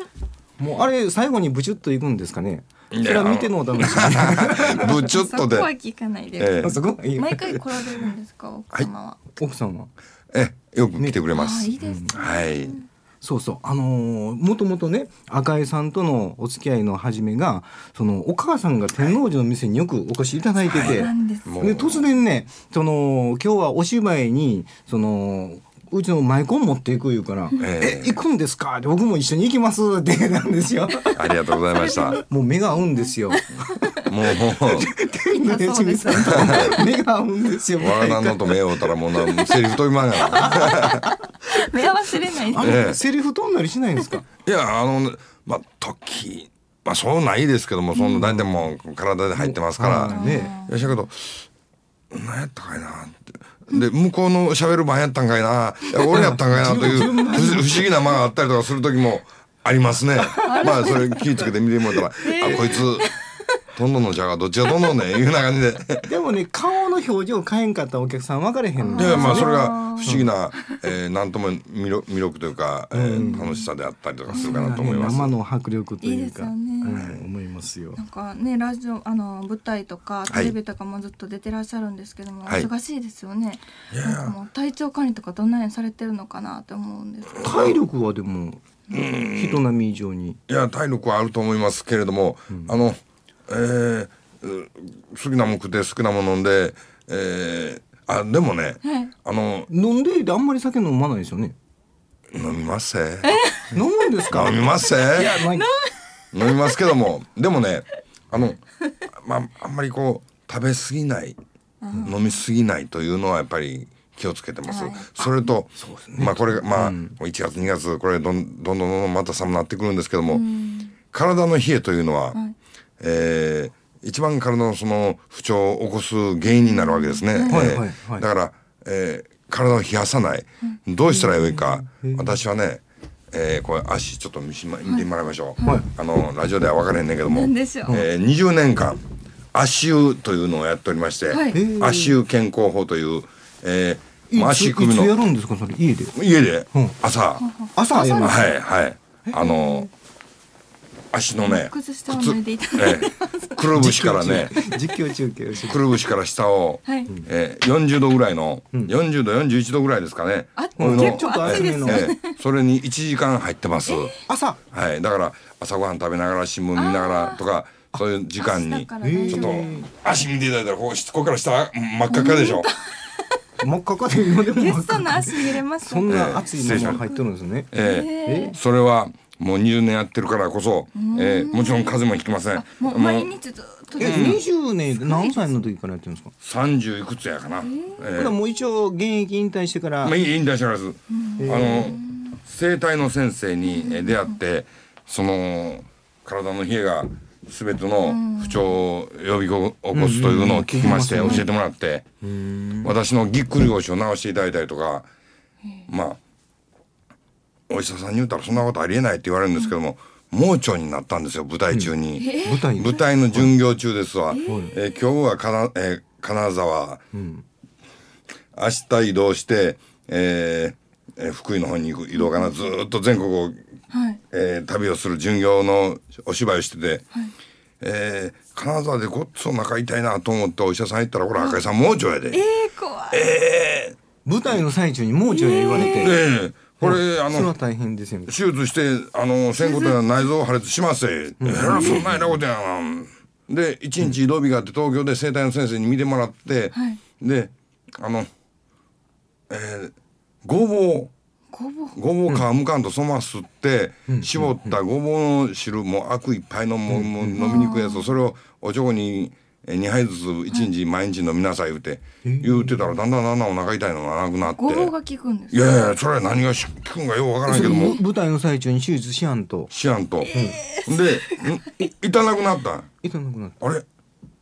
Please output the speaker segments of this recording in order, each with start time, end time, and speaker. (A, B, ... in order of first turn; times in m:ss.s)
0:00.6-0:05.0 A
0:02.9-0:05.7 B
0:05.0-0:09.2 C
0:06.4-0:06.7 B
0:06.6-0:07.6 A
0:09.4-0:09.9 A
0:10.3-0:12.8 B
0:11.3-0:12.8 C
0:11.8-0:12.1 A
0:13.2-0:31.3 A
0:20.6-0:22.1 B
0:20.8-0:21.5 C
0:27.6-0:28.2 B
0:31.2-0:32.2 B
0:31.8-0:32.2 C
0:32.1-0:33.4 A
0:33.3-0:33.8 C
0:34.1-0:34.9 B
0:34.4-0:38.8 A
0:35.4-0:36.8 C
0:37.8-0:41.0 B
0:40.3-0:42.8 C
0:42.5-0:44.2 A
0:42.6-0:43.0 B
0:44.4-0:51.4 B
0:47.9-0:48.3 C
0:48.2-0:48.7 A
0:49.3-0:50.5 A
0:50.1-0:50.9 C
0:52.1-1:03.1 B
0:56.1-0:57.9 A
1:00.4-1:01.5 C
1:02.2-1:03.1 C
1:03.8-1:06.1 B
1:06.1-1:10.3 A
1:08.8-1:10.3 C
1:09.0-1:15.4 B
1:12.9-1:13.6 A
1:13.2-1:13.6 C
1:14.3-1:18.0 A
1:14.4-1:14.6 C
1:16.0-1:17.0 C
1:16.9-1:17.2 B
1:18.0-1:27.5 C
1:20.3-1:20.5 B
1:23.9-1:24.4 B
1:27.4-1:30.4 A
1:28.9-1:29.6 B
1:30.5-1:39.7 B
1:38.8-1:39.1 C
1:39.7-1:41.5 A
1:42.3-1:43.3 B
1:43.2-1:43.7 C
1:43.7-1:45.6 A
1:44.3-1:45.3 B
1:45.2-1:45.9 C
1:46.3-1:51.4 B
1:51.8-1:52.4 C
1:52.0-2:00.4 B
1:54.7-1:55.5 C
1:55.8-1:57.2 A
2:00.3-2:00.9 C
2:01.1-2:02.4 B
2:03.0-2:19.0 B
2:06.5-2:07.8 C
2:07.5-2:08.2 A
2:11.1-2:12.4 A
2:17.3-2:18.0 C
2:19.5-2:25.2 B
2:21.3-2:21.6 C
2:21.5-2:22.2 A
2:24.3-2:26.2 A
2:26.1-2:27.4 B
2:27.4-2:28.6 C
2:27.7-2:28.5 A
2:28.2-2:29.9 B
2:29.2-2:29.9 A
2:31.1-2:34.5 B
2:31.4-2:33.7 C
2:33.8-2:35.8 A
2:35.7-2:44.2 B
2:40.6-2:42.3 C
2:40.8-2:42.1 A
2:43.8-2:44.2 C
2:44.3-2:44.6 A
2:44.7-2:52.7 B
2:46.7-2:47.4 C
2:48.4-2:49.7 C
2:49.0-2:49.9 A
2:52.1-2:53.2 C
2:53.6-2:57.7 A
2:54.5-2:57.2 C
2:56.1-2:57.0 B
2:57.7-3:03.3 B
2:57.8-2:58.5 C
2:58.2-2:58.6 A
3:01.0-3:04.4 C
3:04.0-3:06.3 A
3:04.0-3:04.4 B
3:06.4-3:08.3 B
3:07.6-3:08.1 C
3:08.2-3:10.2 A
3:10.0-3:22.0 B
3:11.1-3:12.3 C
3:11.4-3:12.0 A
3:13.7-3:14.3 C
3:18.0-3:18.8 C
3:19.9-3:21.5 A
3:20.8-3:21.5 C
3:22.2-3:23.0 A
3:22.8-3:25.1 B
3:25.9-3:26.2 B
3:27.7-3:37.0 B
3:32.2-3:32.6 C
3:32.4-3:33.5 A
3:34.3-3:34.8 C
3:34.4-3:34.7 A
3:37.1-3:37.4 A
3:38.5-3:43.6 B
3:42.1-3:42.5 C
3:43.9-3:44.2 C
3:44.3-3:47.0 B
3:47.8-3:52.4 B
3:51.4-3:51.6 C
3:52.3-3:53.3 C
3:53.1-3:54.0 B
3:54.2-3:56.2 A
3:55.3-3:56.1 C
3:55.7-3:57.5 B
3:56.8-3:58.3 A
3:58.3-4:08.3 B
3:59.6-4:00.0 C
4:01.4-4:02.4 A
4:01.6-4:02.0 C
4:06.7-4:07.0 C
4:09.5-4:09.9 B
4:10.4-4:11.1 B
4:11.5-4:12.0 C
4:12.0-4:24.9 B
4:14.1-4:14.8 A
4:16.9-4:17.5 A
4:17.4-4:18.1 C
4:22.2-4:23.0 A
4:24.6-4:26.0 C
4:25.5-4:28.0 B
4:27.4-4:29.7 A
4:27.7-4:27.9 C
4:29.7-4:32.9 B
4:30.3-4:30.9 C
4:30.3-4:30.6 A
4:33.0-4:33.6 A